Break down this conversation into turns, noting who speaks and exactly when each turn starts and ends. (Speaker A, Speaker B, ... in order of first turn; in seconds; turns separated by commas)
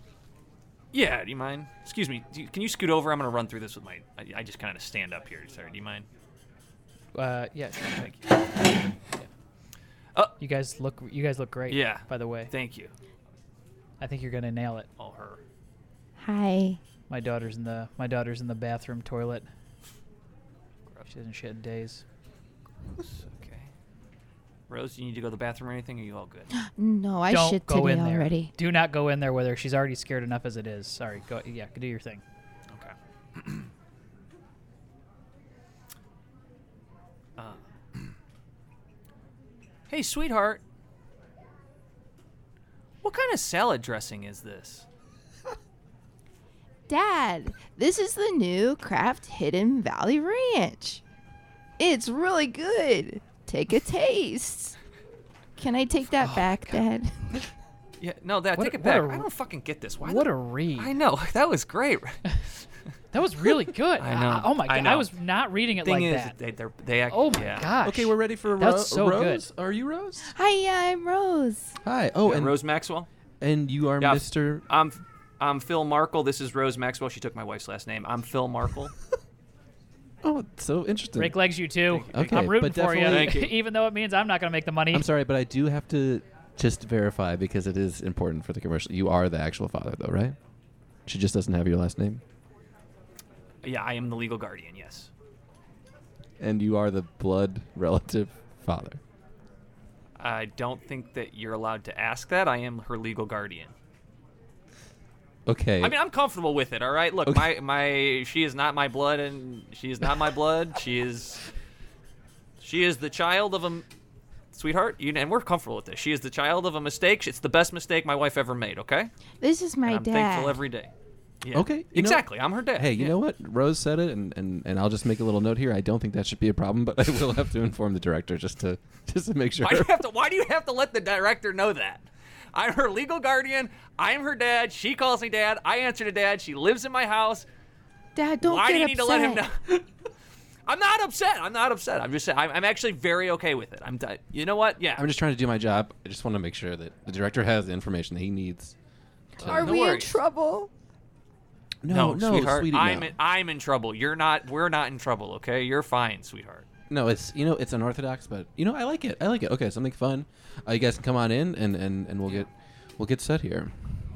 Speaker A: 0.9-6.1, Speaker B: 7.1-8.1, Speaker A: 8.0-8.3, Speaker B: 10.4-12.5, Speaker A: 11.7-12.9, Speaker B: 14.0-14.9, Speaker A: 15.0-15.4, Speaker C: 16.2-16.8, Speaker B: 17.1-19.5, Speaker B: 21.1-22.0, Speaker A: 23.0-23.7, Speaker A: 24.7-26.5, Speaker C: 26.6-28.5, Speaker B: 27.3-32.2, Speaker A: 32.7-33.7, Speaker A: 37.4-38.1, Speaker A: 39.9-40.6, Speaker A: 43.0-44.9, Speaker C: 46.9-51.0, Speaker C: 51.8-54.8, Speaker C: 55.6-57.5, Speaker A: 56.1-56.8, Speaker A: 58.0-62.2, Speaker B: 58.5-59.3, Speaker B: 60.0-60.9, Speaker B: 63.1-66.3, Speaker A: 64.0-65.1, Speaker A: 65.8-67.7, Speaker B: 67.1-69.4, Speaker D: 67.8-70.3, Speaker C: 70.2-71.8, Speaker D: 71.8-72.6, Speaker A: 72.2-73.1, Speaker D: 73.4-74.7, Speaker A: 74.0-78.9, Speaker D: 80.2-81.4, Speaker B: 81.2-85.0, Speaker A: 81.9-82.5, Speaker D: 82.1-83.3, Speaker A: 83.0-83.5, Speaker D: 84.9-90.4, Speaker D: 91.0-92.2, Speaker A: 93.6-95.1, Speaker D: 96.4-99.0, Speaker A: 100.2-103.7, Speaker D: 105.5-105.9, Speaker A: 105.8-111.5, Speaker A: 112.6-113.8, Speaker A: 114.5-119.1, Speaker C: 119.4-120.6, Speaker A: 119.8-120.9, Speaker A: 121.4-123.1, Speaker D: 121.5-129.9, Speaker A: 129.6-137.4, Speaker C: 138.1-139.4, Speaker A: 138.4-139.9, Speaker A: 140.7-145.1, Speaker D: 144.9-148.8, Speaker C: 149.4-150.7, Speaker D: 149.4-149.8, Speaker A: 149.4-150.2, Speaker D: 151.8-153.1, Speaker A: 151.9-156.7, Speaker D: 156.9-163.8